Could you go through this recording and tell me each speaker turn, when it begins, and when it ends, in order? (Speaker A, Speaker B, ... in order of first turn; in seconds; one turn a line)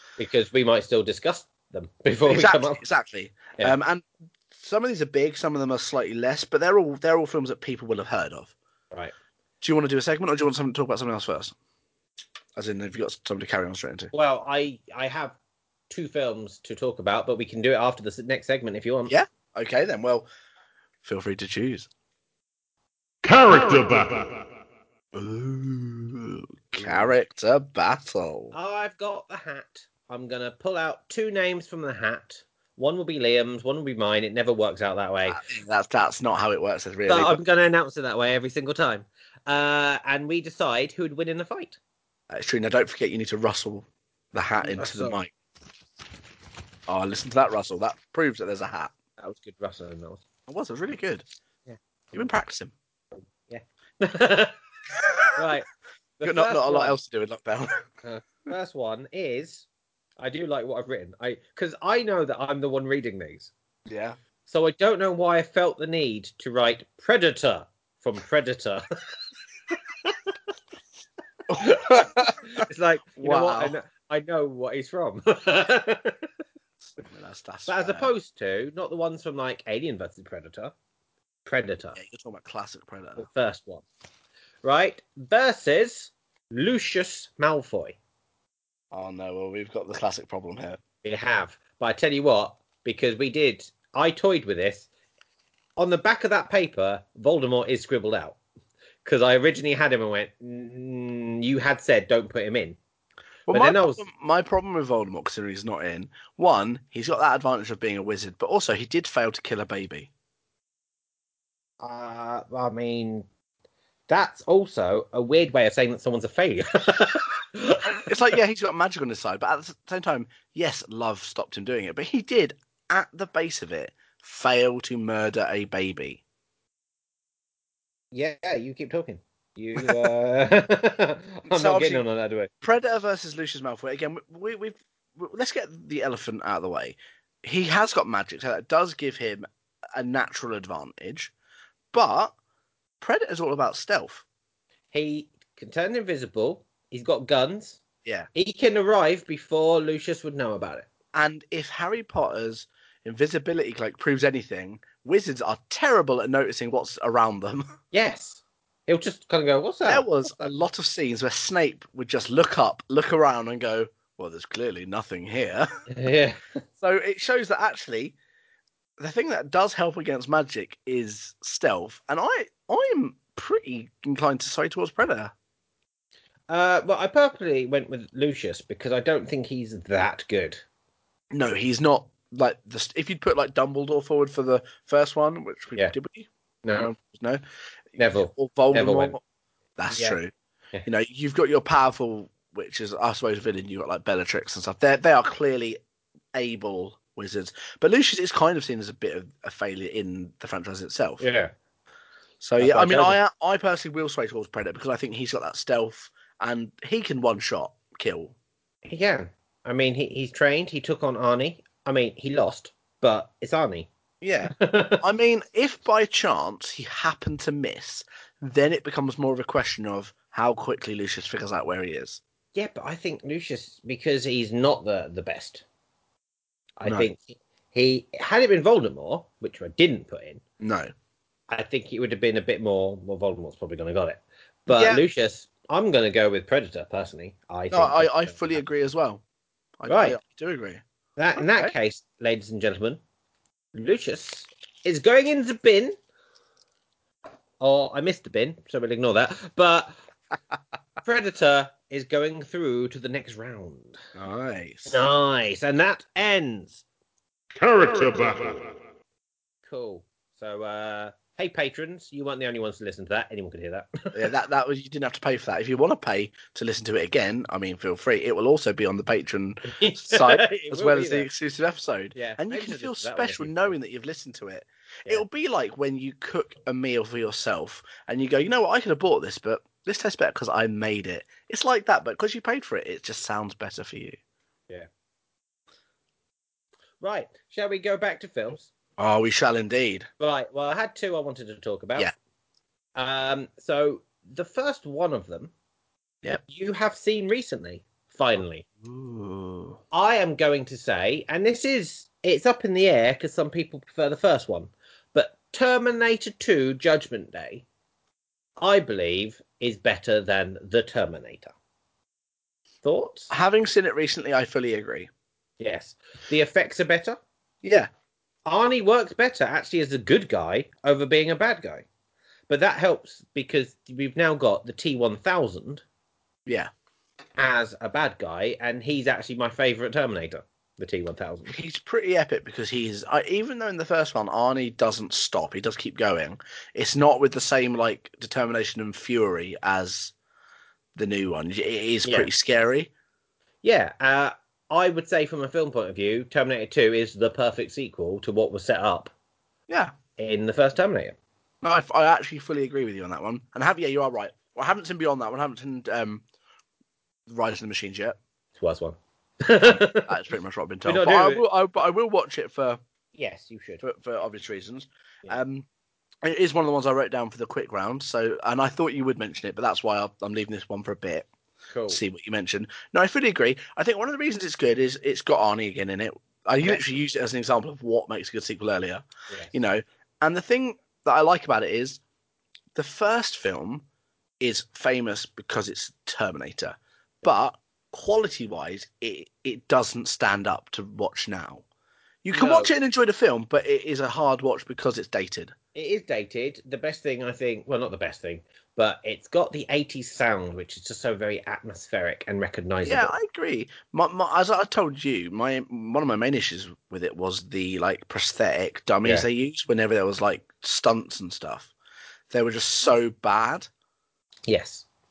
Speaker A: 0.2-2.8
Speaker B: 2.2-8.5
Speaker B: 9.6-11.5
Speaker B: 12.6-14.1
Speaker A: 14.1-15.4
Speaker A: 15.9-19.1
Speaker B: 19.1-20.3
Speaker B: 21.0-21.9
Speaker C: 23.2-24.5
Speaker B: 25.1-28.5
Speaker A: 26.8-27.1
Speaker A: 28.5-35.4
Speaker B: 35.3-37.4
Speaker A: 37.1-41.8
Speaker B: 42.3-45.3
Speaker A: 44.6-45.2
Speaker B: 46.9-48.9
Speaker A: 49.2-50.2
Speaker B: 50.5-51.2
Speaker B: 52.1-52.7
Speaker A: 53.1-54.6
Speaker B: 54.9-55.3
Speaker A: 55.3-55.7
Speaker A: 56.2-57.0
Speaker B: 56.2-57.7
Speaker A: 58.0-59.6
Speaker A: 60.2-63.5
Speaker B: 63.9-64.2
Speaker A: 64.5-68.8
Speaker B: 71.5-72.5
Speaker A: 71.5-76.3
Speaker B: 73.2-73.8
Speaker B: 77.0-78.1
Speaker A: 77.7-80.7
Speaker A: 81.5-82.0
Speaker B: 82.0-83.3
Speaker A: 83.2-83.8
Speaker A: 84.6-88.0
Speaker B: 88.9-90.8
Speaker A: 91.0-94.9
Speaker A: 95.8-98.4
Speaker A: 99.0-102.8
Speaker B: 103.5-110.1
Speaker A: 103.5-104.0
Speaker A: 111.8-113.3
Speaker A: 114.1-118.0
Speaker B: 117.9-126.2
Speaker A: 128.1-132.5
Speaker B: 129.8-130.1
Speaker B: 131.5-132.0
Speaker B: 132.6-141.3
Speaker B: 141.9-142.3
Speaker B: 143.0-144.2
Speaker A: 144.9-147.8
Speaker A: 148.3-150.9
Speaker B: 151.1-157.7
Speaker A: 157.9-160.1
Speaker B: 159.8-165.7
Speaker A: 165.9-166.6
Speaker B: 166.8-168.2
Speaker B: 169.0-175.3
Speaker A: 176.5-180.6
Speaker B: 181.3-187.4
Speaker A: 186.6-186.9
Speaker A: 188.0-189.2
Speaker B: 188.2-189.2
Speaker B: 189.8-190.3
Speaker A: 189.9-190.2
Speaker B: 190.8-195.8
Speaker B: 196.3-201.2
Speaker A: 201.2-201.5
Speaker B: 202.4-208.3
Speaker A: 202.6-203.2
Speaker A: 208.9-213.9
Speaker B: 214.2-222.2
Speaker A: 214.5-215.0
Speaker A: 222.5-225.6
Speaker A: 226.8-230.4
Speaker B: 226.8-227.1
Speaker B: 230.6-230.9
Speaker A: 231.5-238.6
Speaker B: 234.7-235.0
Speaker B: 237.7-239.2
Speaker B: 239.8-240.8
Speaker A: 239.9-240.2
Speaker A: 241.2-243.0
Speaker B: 241.3-241.7
Speaker A: 243.7-245.9
Speaker A: 247.6-249.9
Speaker A: 251.0-254.0
Speaker B: 254.2-255.0
Speaker A: 254.9-256.8
Speaker C: 257.5-258.8
Speaker A: 259.6-264.2
Speaker B: 264.1-284.2
Speaker A: 269.7-271.3
Speaker A: 272.1-273.8
Speaker A: 287.0-288.7
Speaker B: 289.0-290.1
Speaker A: 290.2-292.1
Speaker A: 292.9-295.5
Speaker A: 296.5-298.6
Speaker B: 298.8-299.8
Speaker A: 299.9-307.6
Speaker A: 308.6-311.5
Speaker A: 312.8-313.3
Speaker B: 313.3-315.1
Speaker A: 315.6-317.2
Speaker B: 317.6-317.9
Speaker A: 318.4-321.8
Speaker A: 322.5-325.8
Speaker B: 326.4-326.7
Speaker A: 327.4-331.6
Speaker B: 331.5-340.1
Speaker B: 340.9-342.9
Speaker A: 342.0-342.3
Speaker A: 343.6-349.1
Speaker B: 349.7-349.9
Speaker A: 350.2-351.1
Speaker B: 351.6-356.2
Speaker B: 357.3-358.2
Speaker A: 358.6-360.1
Speaker B: 359.6-362.8
Speaker A: 360.8-361.4
Speaker A: 363.1-363.8
Speaker B: 363.8-365.7
Speaker B: 366.2-371.3
Speaker A: 371.7-372.0
Speaker B: 371.9-382.0
Speaker B: 382.7-383.8
Speaker B: 384.4-391.6
Speaker B: 392.2-395.5
Speaker A: 392.3-392.7
Speaker A: 395.7-403.1
Speaker B: 402.9-411.7
Speaker B: 412.3-413.7
Speaker A: 414.5-414.8